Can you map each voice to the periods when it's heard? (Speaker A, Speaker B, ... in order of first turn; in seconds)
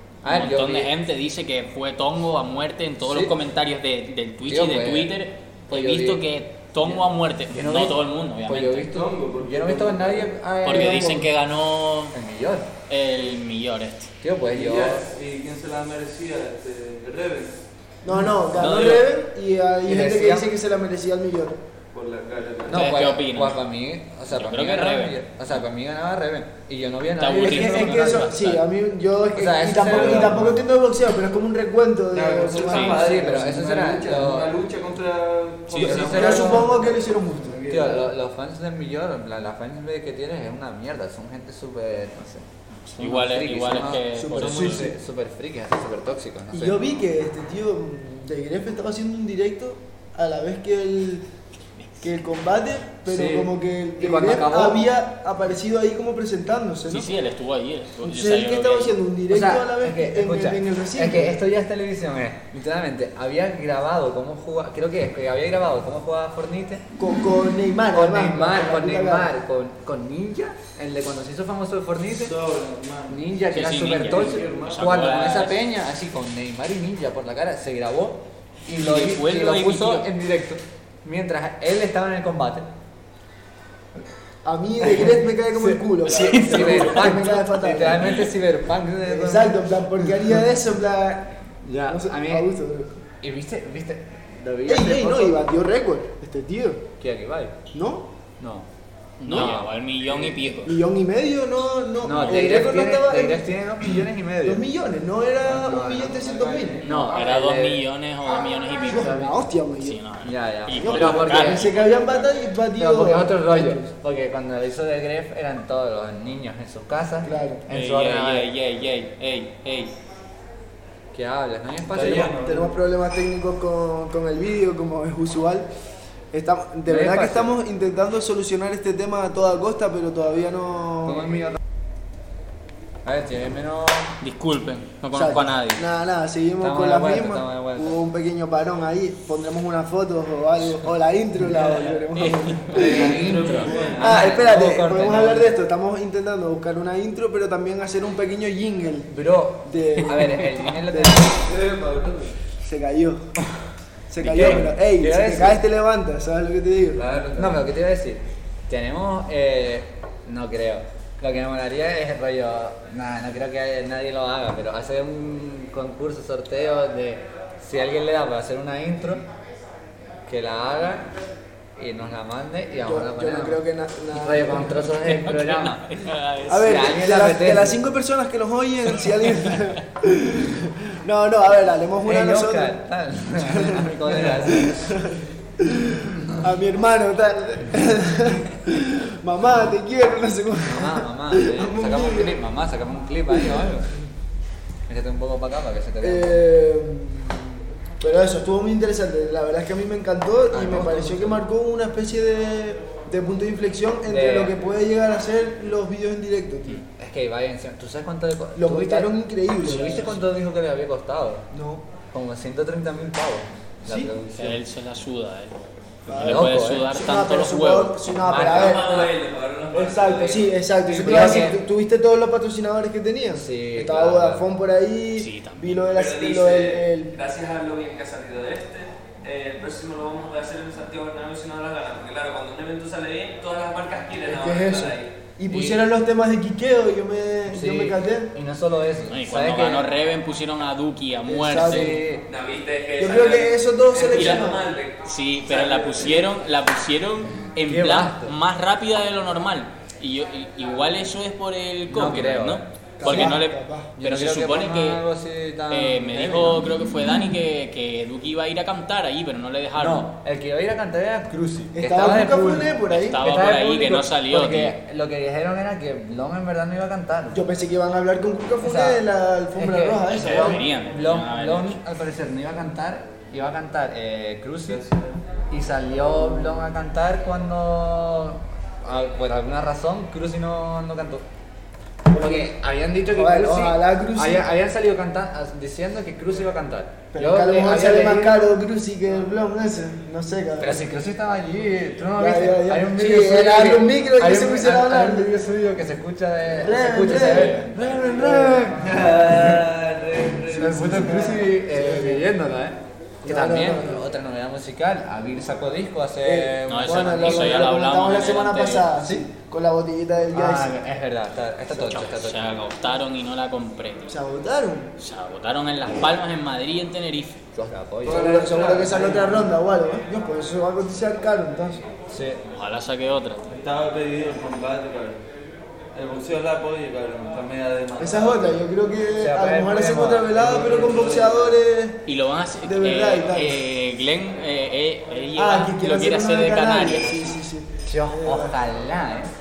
Speaker A: 0.2-0.9, 3.0-3.3, 4.4-5.1, 5.7-6.2, 6.8-11.3, 12.1-12.7, 14.2-15.1, 19.8-20.5, 22.7-28.2, 29.3-30.6, 32.7-34.5, 35.7-36.7, 37.7-42.5, 43.0-46.8, 53.1-54.9, 59.3-66.8, 67.9-72.3, 73.1-82.7, 84.9-89.6, 91.6-92.5, 93.2-95.4, 97.0-97.5, 98.4-98.7, 99.2-99.7, 102.0-104.6, 105.4-107.8, 110.2-112.1, 112.8-118.5, 121.1-122.4, 126.9-127.5, 131.1-131.6, 133.0-134.2, 136.6-138.0, 142.7-145.6, 149.1-151.4, 154.2-155.6, 157.0-169.2, 170.3-171.1, 171.8-173.6, 174.1-175.8, 176.5-177.8, 182.0-185.0, 190.6-193.9, 194.9-196.4, 200.5-201.4, 204.1-204.5, 206.9-211.4, 212.1-214.6, 216.2-216.9, 218.2-219.1, 220.9-221.6, 223.3-224.4, 237.4-239.9, 241.6-242.2, 247.6-248.3, 251.9-253.3, 254.0-256.6, 259.8-267.4, 268.6-269.0, 269.6-274.8, 275.5-281.2, 282.1-288.4, 290.6-299.6, 300.5-307.7, 310.3-312.4, 317.5-318.4, 322.1-322.4, 329.1-330.4, 337.9-339.3
Speaker B: 0.2-8.9, 10.6-12.1, 12.9-14.1, 18.5-19.1, 22.7-23.6, 24.3-25.2, 27.2-28.6, 32.7-33.0, 42.9-44.9, 56.9-58.9, 73.5-75.6, 78.8-80.1, 86.0-87.1, 99.2-100.8, 106.8-112.3, 117.7-119.9, 134.2-135.9, 141.5-143.1, 154.2-154.7, 175.0-176.8, 179.0-179.8, 209.6-210.2, 214.3-218.5, 225.2-225.8, 235.5-235.8, 239.1-242.0, 244.1-244.4, 245.0-255.0, 255.7-260.1, 262.9-264.7, 270.1-271.8, 297.1-297.7, 306.7-308.9, 311.9-314.2, 315.0-317.4, 322.5-323.5, 332.1-337.3
Speaker C: 8.9-10.3, 14.5-17.5, 21.9-23.0, 32.1-38.1, 72.1-73.2, 74.0-74.9, 106.2-106.8, 121.9-122.7, 143.2-144.2, 151.4-152.3, 157.1-157.4, 274.6-275.1, 298.7-301.4, 318.0-319.5, 323.5-325.2, 325.9-328.6, 330.3-331.5
Speaker D: 18.0-21.6, 27.4-33.6, 35.8-37.6, 44.1-44.9, 46.5-51.2, 52.0-57.1, 58.0-61.4, 67.0-69.3, 84.4-88.2, 89.0-93.0, 94.7-96.8, 97.7-98.1, 100.3-103.4, 104.4-106.8, 108.3-110.0, 110.8-113.9, 117.2-117.6, 122.3-125.7, 126.3-131.4, 135.1-149.1, 149.6-151.3, 152.6-153.3, 154.1-157.3, 172.8-174.8, 176.5-182.8, 183.3-192.3, 193.3-193.7, 196.0-206.8, 208.6-210.1, 211.5-211.8, 213.8-214.1, 216.1-218.9, 219.7-227.1, 234.2-238.3, 241.3-242.0, 243.0-244.6, 245.5-246.2, 253.0-253.9, 261.7-263.2, 267.3-270.6, 282.1-282.5, 283.1-284.4, 287.1-290.8, 292.2-295.4, 296.5-298.9, 300.6-302.3, 303.2-304.0, 306.2-310.8, 314.1-314.9, 318.1-321.9, 328.0-332.0, 332.6-333.6, 335.4-338.6
Speaker E: 143.2-143.9, 218.5-220.5, 225.9-235.2, 242.3-245.1